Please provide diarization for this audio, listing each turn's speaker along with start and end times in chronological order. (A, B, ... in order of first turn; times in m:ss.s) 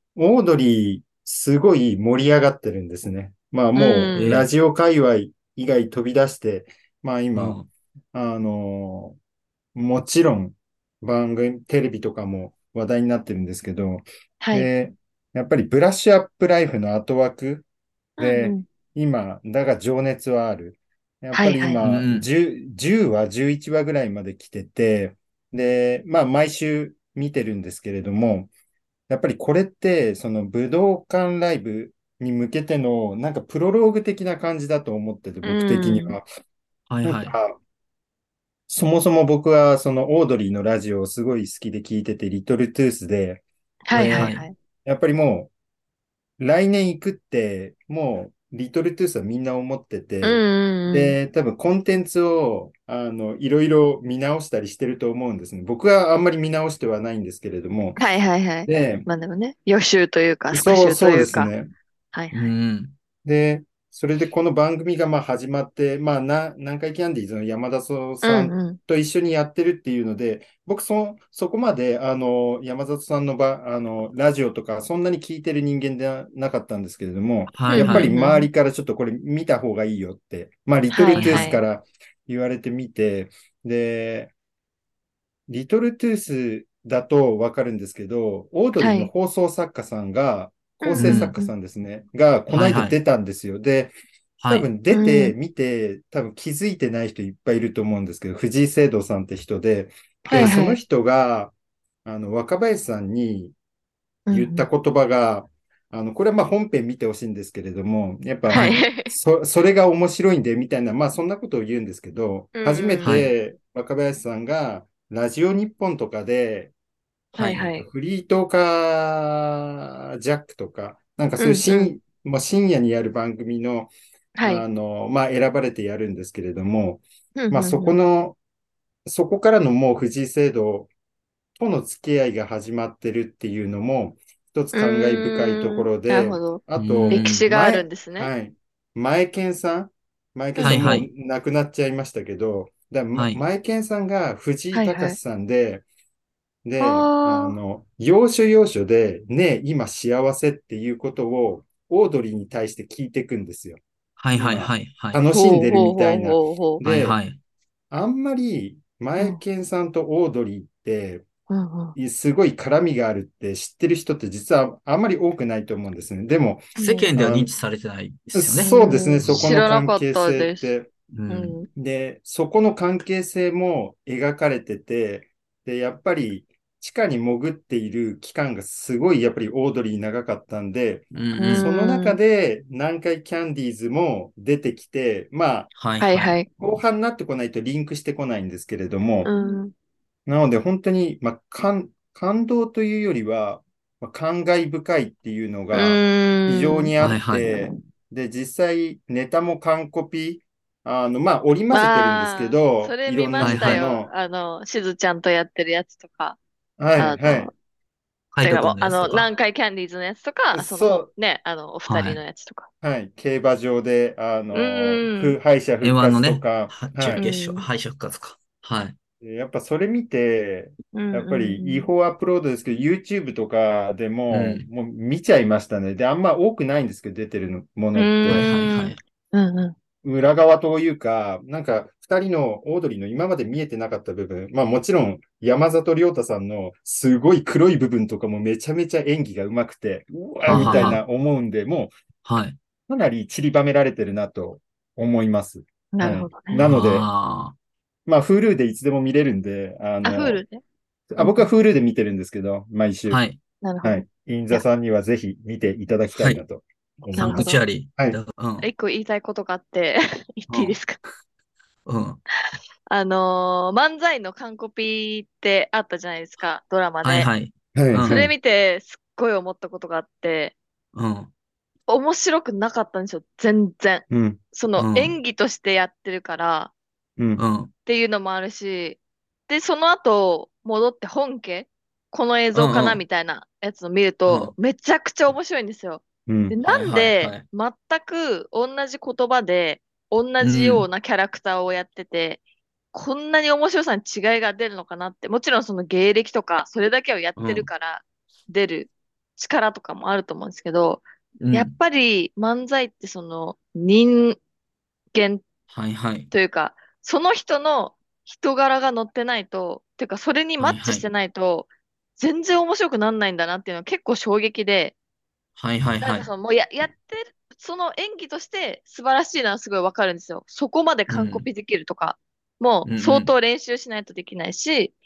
0:00.2-0:07.6 A
0:03.8-0:04.3 B
0:04.2-0:04.5 C
0:07.3-0:07.7 C
0:08.1-0:09.2 A
0:09.8-0:17.7 A
0:14.4-0:14.7 B
0:18.2-0:18.7 B
0:18.2-0:28.5 A
0:21.3-0:21.8 B
0:21.8-0:22.3 C
0:29.1-0:36.3 A
0:35.4-0:36.2 B
0:36.9-0:37.3 C
0:37.0-0:37.6 A
0:38.7-0:43.4 A
0:43.9-0:44.5 B
0:43.9-0:44.5 C
0:43.9-0:44.3 A
0:44.8-0:45.5 A
0:46.4-0:58.0 A
0:50.2-0:51.2 B
0:58.0-1:01.5 B
0:58.7-0:59.1 A
1:00.5-1:01.7 A
1:02.1-1:02.4 B
1:02.3-1:02.9 C
1:03.2-1:24.3 A
1:08.2-1:08.8 B
1:17.5-1:18.1 C
1:17.7-1:18.5 B
1:20.9-1:21.6 B
1:21.2-1:21.6 C
1:25.5-1:33.9 A
1:28.8-1:29.1 B
1:30.8-1:31.5 B
1:31.0-1:31.3 C
1:32.5-1:33.0 C
1:34.4-1:34.7 C
1:34.5-1:41.5 A
1:34.9-1:35.4 B
1:40.3-1:40.8 B
1:40.3-1:40.6 C
1:42.0-1:43.6 A
1:44.3-1:44.7 B
1:44.3-1:56.7 A
1:48.5-1:49.1 B
1:48.5-1:48.8 C
1:52.6-1:53.2 B
1:53.0-1:53.3 C
1:57.3-1:57.7 C
1:57.4-1:57.9 B
1:57.6-2:03.9 A
2:01.4-2:01.9 B
2:04.4-2:04.6 B
2:04.4-2:08.4 A
2:07.4-2:08.0 B
2:09.0-2:10.9 A
2:11.6-2:25.8 A
2:14.7-2:18.3 B
2:16.8-2:17.5 C
2:20.6-2:20.9 B
2:20.6-2:21.1 C
2:23.2-2:23.4 C
2:24.7-2:25.2 B
2:26.6-2:33.8 A
2:26.8-2:27.6 B
2:34.2-2:35.2 C
2:34.3-2:37.2 A
2:35.3-2:36.8 B
2:36.8-2:37.4 C
2:37.9-2:41.3 A
2:41.5-2:42.0 B
2:42.0-2:47.5 A
2:46.8-2:47.1 B
2:46.8-2:49.6 C
2:48.3-2:50.9 A
2:48.6-2:50.7 B
2:51.1-2:51.6 C
2:51.3-2:51.7 B
2:51.8-3:05.7 A
3:01.1-3:01.7 C
3:01.4-3:02.2 B
3:05.7-3:06.4 C
3:06.0-3:06.5 B
3:06.6-3:09.3 A
3:09.2-3:09.7 B
3:10.3-3:24.1 A
3:15.7-3:16.9 B
3:17.0-3:17.5 C
3:21.7-3:26.4 B
3:23.4-3:23.9 C
3:26.8-3:27.5 A
3:27.0-3:27.5 B
3:28.3-3:29.3 C
3:28.4-3:32.7 B
3:30.5-3:31.1 A
3:31.8-3:32.2 C
3:32.8-3:37.2 A
3:34.5-3:35.4 B
3:35.8-3:39.0 C
3:37.2-3:37.7 B
3:39.2-3:48.5 A
3:40.9-3:41.9 B
3:44.3-3:44.7 C
3:48.0-3:49.8 B
3:48.3-3:49.0 C
3:50.0-4:01.9 A
4:00.5-4:01.0 C
4:00.5-4:01.0 B
4:02.2-4:02.6 C
4:02.9-4:07.1 A
4:05.9-4:06.6 B
4:06.6-4:07.6 C
4:08.1-4:10.4 A
4:10.0-4:10.6 B
4:11.1-4:13.2 A
4:11.2-4:11.5 B
4:13.1-4:13.4 C
4:13.6-4:14.6 B
4:13.8-4:18.2 A
4:16.2-4:16.4 C
4:17.2-4:17.6 B
4:17.2-4:18.7 C
4:18.6-4:21.0 B
4:20.5-4:20.8 C
4:21.9-4:22.2 C
4:22.9-4:27.3 B
4:27.0-4:28.3 C
4:27.8-4:28.3 A
4:28.0-4:30.6 B
4:30.9-4:31.3 C
4:31.9-4:36.7 B
4:34.1-4:34.4 A
4:34.8-4:35.2 C
4:37.4-4:37.7 C
4:37.9-4:52.4 B
4:42.5-4:43.0 C
4:44.3-4:44.5 C
4:46.3-4:46.6 A
4:46.6-4:47.4 C
4:50.4-4:50.9 C
4:52.9-5:04.4 B
4:57.4-4:57.7 C
5:01.4-5:01.8 C
5:05.1-5:05.4 B
5:05.7-5:06.3 C
5:06.3-5:15.0 B
5:10.6-5:11.1 C
5:15.6-5:16.3 C
5:16.0-5:25.0 B
5:21.1-5:21.5 C
5:22.8-5:23.3 C